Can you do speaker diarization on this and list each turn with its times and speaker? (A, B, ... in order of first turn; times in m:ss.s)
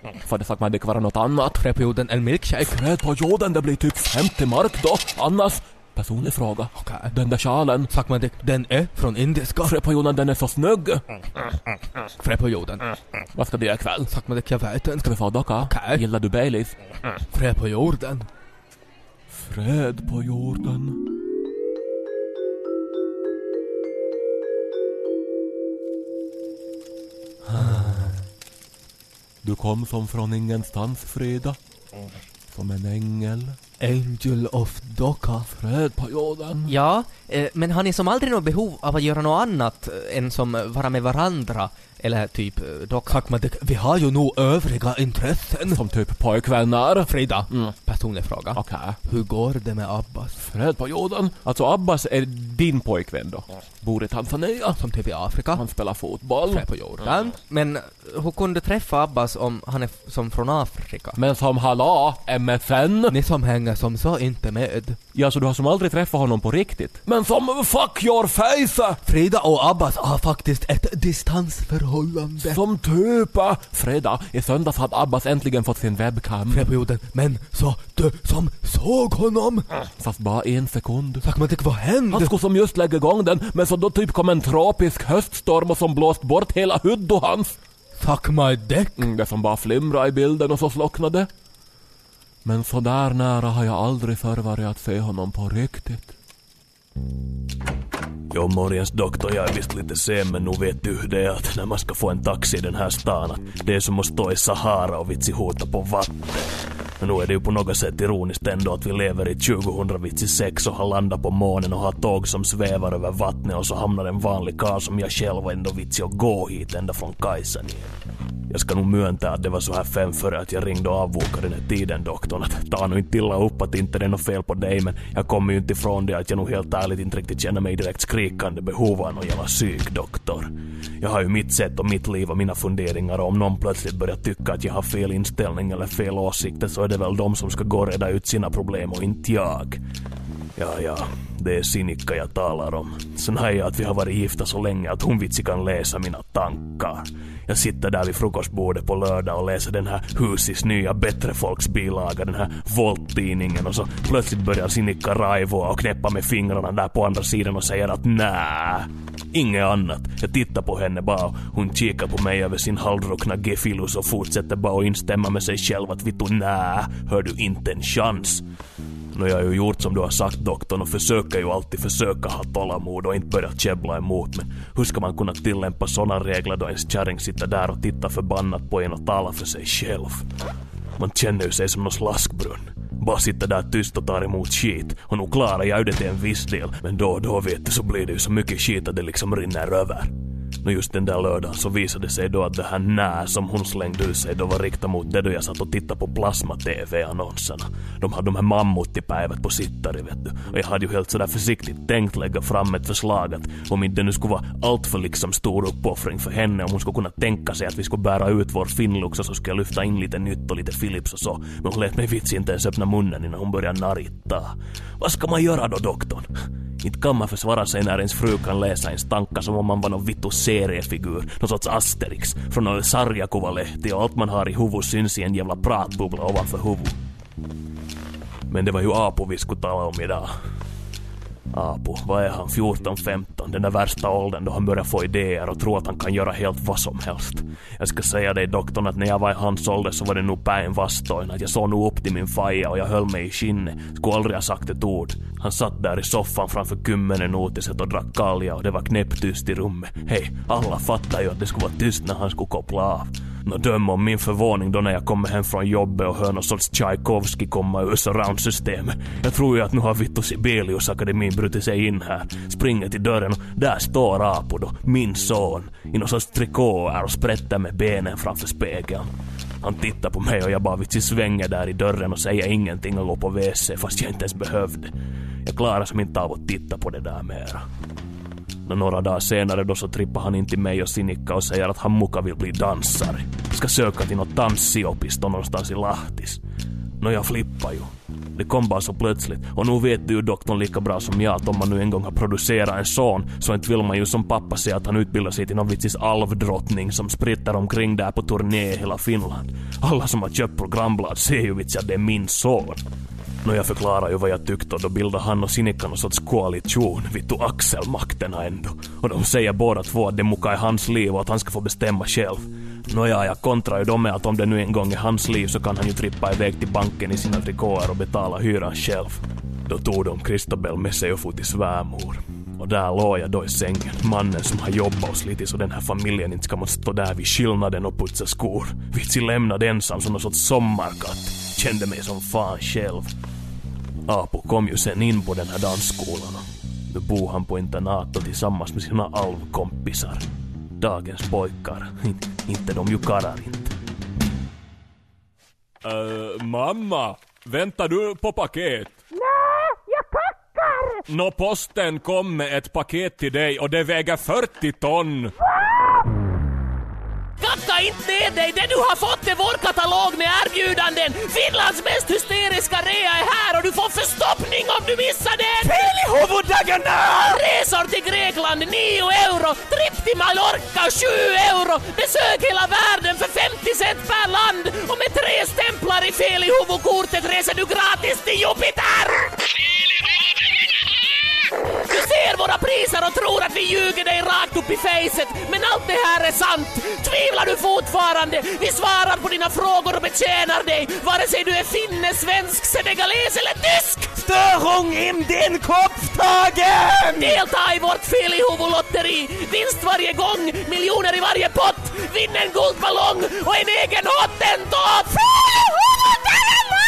0:00.2-0:01.6 A
0:01.6-0:02.8 B
0:02.6-0:07.9 A
0:06.8-0:07.1 B
0:07.9-0:09.7 B
0:09.6-0:11.0 A
0:12.2-0:12.8 B
0:13.4-0:14.1 A
0:14.1-0:16.0 B
0:15.0-0:16.7 A
0:17.3-0:18.3 B
0:19.3-0:21.0 A
0:27.5-0:28.2 B
0:27.6-0:27.8 A
0:29.4-0:31.6 A
0:32.5-0:33.6 A
0:33.8-0:35.5 B
0:35.5-0:36.7 A
0:36.6-0:43.2 C
0:43.1-0:45.8 B
0:45.6-0:47.7 A
0:47.1-0:50.4 B
0:48.5-0:49.0 A
0:50.4-0:54.8 A
0:54.8-0:55.6 B
0:55.5-0:56.7 A
0:56.5-0:57.3 B
0:57.3-1:01.2 C
1:01.2-1:03.2 A
1:03.1-1:05.0 B
1:05.1-1:09.0 A
1:09.0-1:12.6 B
1:12.4-1:16.7 A
1:16.5-1:19.7 B
1:20.0-1:21.3 A
1:21.2-1:22.3 B
1:22.1-1:27.6 A
1:28.0-1:29.1 B
1:29.0-1:31.3 A
1:32.4-1:36.1 A
1:38.3-1:57.9 D
1:58.5-2:19.8 D
2:20.6-2:48.4 D
2:49.1-3:00.3 D
3:01.0-3:36.3 D
3:36.8-3:47.0 D
3:48.5-3:50.3 D
3:51.5-4:29.0 D
4:29.6-4:37.6 D
4:38.6-4:46.4 D
4:47.0-5:02.8 D
5:03.4-5:33.1 D
5:34.1-5:40.2 D
5:40.8-5:43.7 D
5:45.8-5:49.0 A
5:51.1-5:55.3 A
5:57.4-6:06.0 E
6:05.6-6:07.0 B
6:07.1-6:19.3 E
6:21.9-6:34.1 E
6:34.2-6:37.4 B
6:37.1-6:46.4 E